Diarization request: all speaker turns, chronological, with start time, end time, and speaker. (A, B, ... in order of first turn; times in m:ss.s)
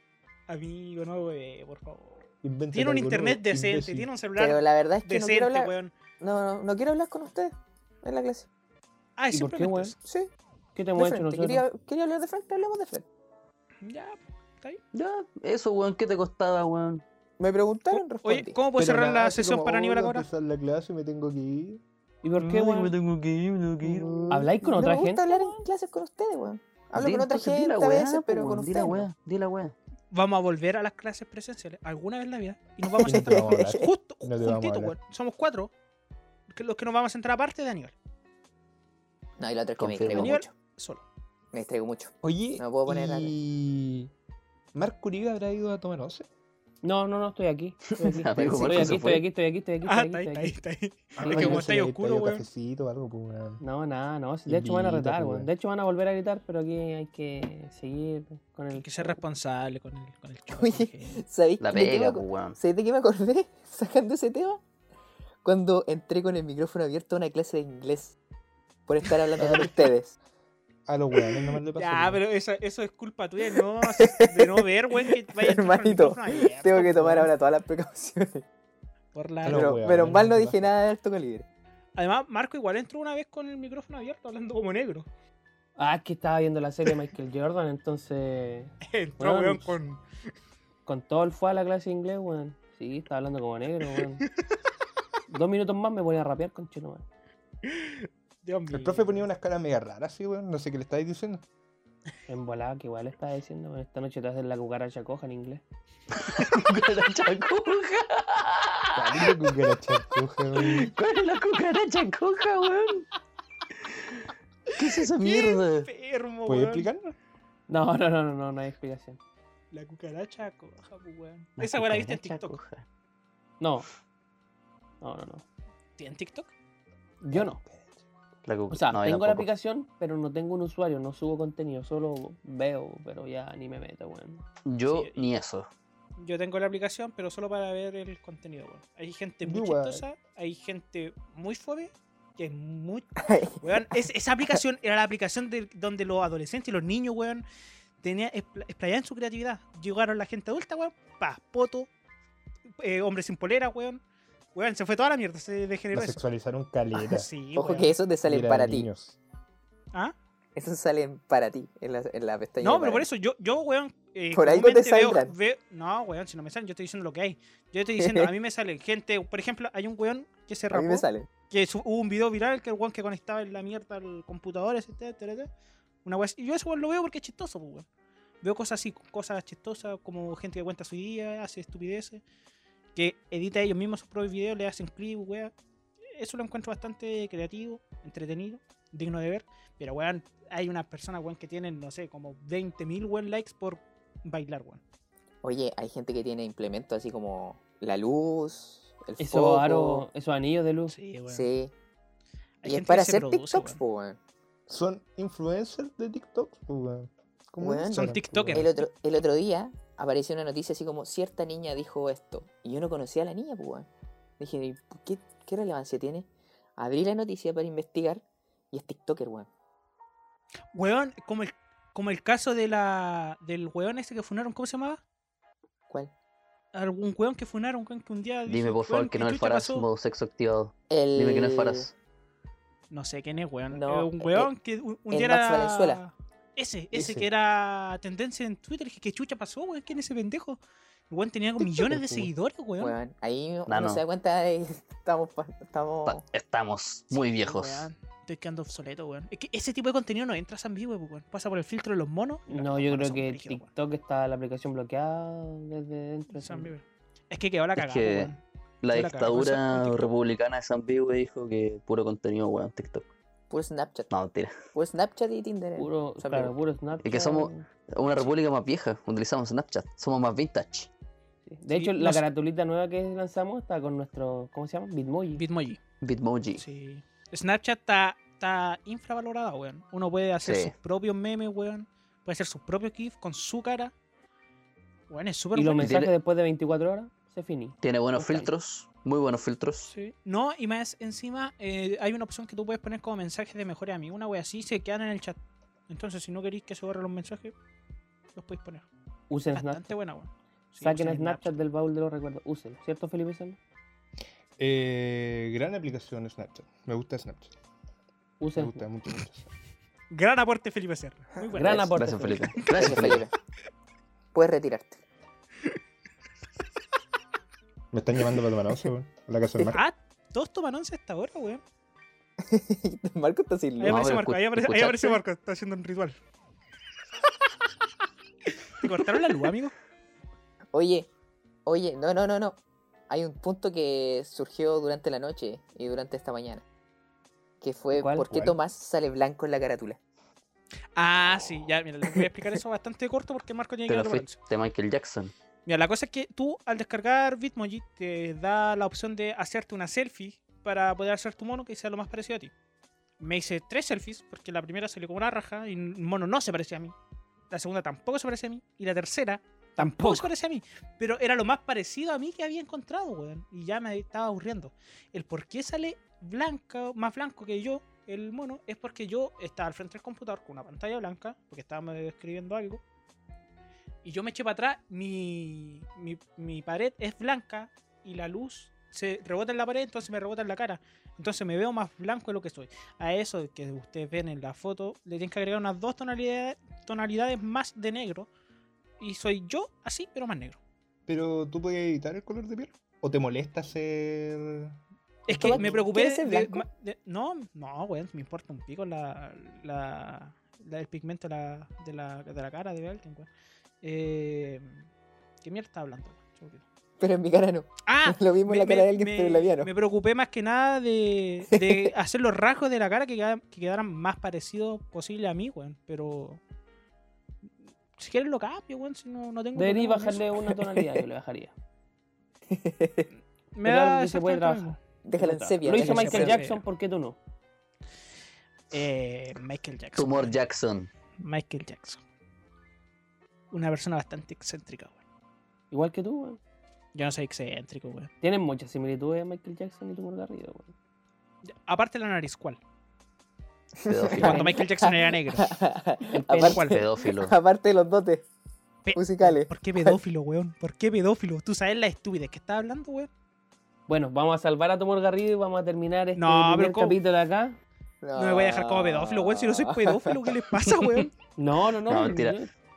0:00.5-0:05.9 A
0:02.4-0:04.1 B
0:04.4-0:08.5 C
0:09.2-0:10.0 A
0:09.3-0:10.0 D
0:10.0-0:10.3 C
0:10.8-0:11.6 D
0:11.0-0:13.1 C
0:13.8-0:14.8 A
0:14.9-0:17.0 E
0:17.4-0:18.6 C
0:17.9-0:20.3 A
0:18.8-0:21.8 B
0:22.2-0:22.9 D
0:22.4-0:24.5 E
0:24.3-0:25.3 D
0:24.6-0:29.1 C
0:27.0-0:29.8 E
0:30.1-0:35.7 A
0:32.9-0:33.9 C
0:33.0-0:35.0 B
0:36.5-0:38.0 A
0:39.4-0:40.5 C
0:39.8-0:40.3 E
0:40.1-0:41.0 A
0:41.5-0:43.3 C
0:42.2-0:44.1 B
0:44.7-0:46.3 B
0:46.8-0:50.5 D
0:48.0-0:49.3 E
0:49.8-0:52.4 A
0:51.2-0:53.6 B
0:51.2-0:51.6 D
0:53.6-0:59.2 D
0:54.5-0:55.5 B
0:58.7-1:01.2 A
1:00.5-1:04.6 C
1:01.6-1:02.6 E
1:05.4-1:08.2 C
1:08.9-1:10.2 C
1:09.4-1:09.8 B
1:10.9-1:12.2 B
1:11.8-1:17.3 A
1:13.6-1:18.4 C
1:19.1-1:19.8 A
1:19.4-1:20.8 B
1:19.5-1:21.5 C
1:22.0-1:25.1 A
1:25.8-1:29.8 D
1:28.8-1:30.0 A
1:30.9-1:34.2 D
1:35.3-1:37.0 D
1:37.6-1:39.2 A
1:38.7-1:41.4 B
1:42.3-1:45.6 D
1:46.1-1:49.3 E
1:48.9-1:50.9 B
1:50.6-1:53.1 E
1:54.8-1:55.9 E
1:54.8-1:56.9 A
1:56.5-1:57.2 B
1:57.7-1:59.2 D
1:59.7-2:02.6 A
2:01.6-2:02.8 E
2:03.6-2:03.9 D
2:05.0-2:05.4 D
2:06.0-2:06.5 A
2:07.2-2:07.6 D
2:07.3-2:08.0 B
2:08.4-2:09.5 E
2:08.7-2:14.4 D
2:14.7-2:15.7 E
2:14.9-2:15.2 A
2:16.2-2:27.4 A
2:19.4-2:20.0 B
2:23.2-2:23.9 C
2:28.0-2:31.9 A
2:32.8-2:34.0 A
2:34.5-2:36.2 A
2:35.9-2:37.3 B
2:37.0-2:38.0 A
2:37.6-2:38.9 C
2:38.2-2:39.2 B
2:40.6-2:43.1 C
2:42.6-2:55.5 A
2:44.3-2:45.4 C
2:48.0-2:48.3 C
2:50.7-2:51.3 C
2:56.0-2:57.9 A
2:58.4-3:02.2 A
3:03.0-3:05.5 A
3:06.2-3:14.8 A
3:15.4-3:20.1 C
3:19.2-3:21.0 D
3:20.9-3:21.5 A
3:21.3-3:21.7 C
3:22.6-3:23.8 A
3:22.6-3:24.2 C
3:24.7-3:28.7 B
3:27.6-3:33.9 C
3:27.9-3:28.8 A
3:34.4-3:39.5 C
3:40.7-3:45.0 A
3:46.7-3:49.9 A
3:48.5-3:51.9 E
3:50.9-3:51.9 C
3:52.9-4:03.0 A
3:53.7-3:54.5 C
3:55.1-3:56.0 C
3:56.9-3:57.3 B
4:02.8-4:06.2 C
4:03.7-4:04.0 E
4:06.1-4:07.9 E
4:07.1-4:13.7 A
4:12.5-4:16.7 D
4:16.3-4:20.1 A
4:17.8-4:23.1 E
4:23.5-4:24.1 C
4:24.1-4:24.6 E
4:24.7-4:26.6 C
4:25.8-4:27.7 D
4:27.0-4:30.9 E
4:31.5-4:35.4 D
4:31.7-4:32.2 A
4:35.4-4:35.8 A
4:36.0-4:36.6 E
4:36.6-4:43.9 A
4:40.4-4:40.7 E
4:45.1-4:46.0 A
4:45.6-4:48.5 D
4:45.8-4:46.1 E
4:47.8-4:49.9 E
4:49.9-4:55.4 A
4:55.9-4:57.5 A
4:58.4-4:58.9 A
4:59.3-4:59.9 D
4:59.5-5:01.6 A
5:00.8-5:03.6 D
5:04.6-5:07.5 B
5:08.4-5:08.8 D
5:08.6-5:09.5 B
5:10.1-5:12.0 A
5:11.5-5:12.6 D
5:12.0-5:13.2 E
5:12.8-5:13.3 C
5:14.3-5:15.0 C
5:17.9-5:19.8 B
5:19.6-5:21.6 A
5:22.4-5:24.1 C
5:23.8-5:26.2 A
5:23.8-5:25.2 E
5:28.8-5:29.7 A
5:30.7-5:31.1 C
5:31.7-5:36.6 C
5:37.6-5:40.0 C
5:37.9-5:38.5 D
5:41.0-5:44.4 A
5:43.9-5:45.3 E
5:45.7-5:52.5 A
5:53.2-5:57.0 A
5:57.5-6:12.8 A
5:59.8-6:00.3 D
6:14.0-6:28.3 A
6:29.0-6:30.6 A
6:31.1-6:34.8 B
6:35.3-6:43.3 A
6:35.3-6:35.7 B
6:35.3-6:36.6 C
6:43.8-6:44.8 A
6:45.4-6:46.6 A
6:47.0-6:49.7 C
6:47.8-6:56.4 A
6:51.5-6:51.9 C
6:58.0-7:00.3 A
6:59.6-7:01.5 D
7:00.8-7:01.0 C
7:02.5-7:03.1 C
7:03.5-7:06.6 A
7:03.6-7:04.8 D
7:05.0-7:06.4 C
7:05.6-7:07.2 D
7:08.7-7:10.4 A
7:10.0-7:10.9 E
7:11.2-7:12.0 A
7:13.5-7:15.0 A
7:15.7-7:16.4 D
7:16.9-7:18.1 A
7:18.2-7:20.7 D
7:21.4-7:22.6 A
7:23.8-7:28.3 C
7:23.9-7:24.4 E
7:24.2-7:25.6 A
7:24.3-7:24.5 D
7:26.1-7:26.7 D
7:26.5-7:26.8 A
7:26.7-7:27.4 E
7:28.8-7:33.1 A
7:28.9-7:30.0 C
7:33.9-7:37.6 D
7:36.2-7:37.0 A
7:38.0-7:40.4 C
7:38.2-7:41.1 A
7:40.7-7:41.0 E
7:41.4-7:42.5 D
7:41.9-7:42.4 E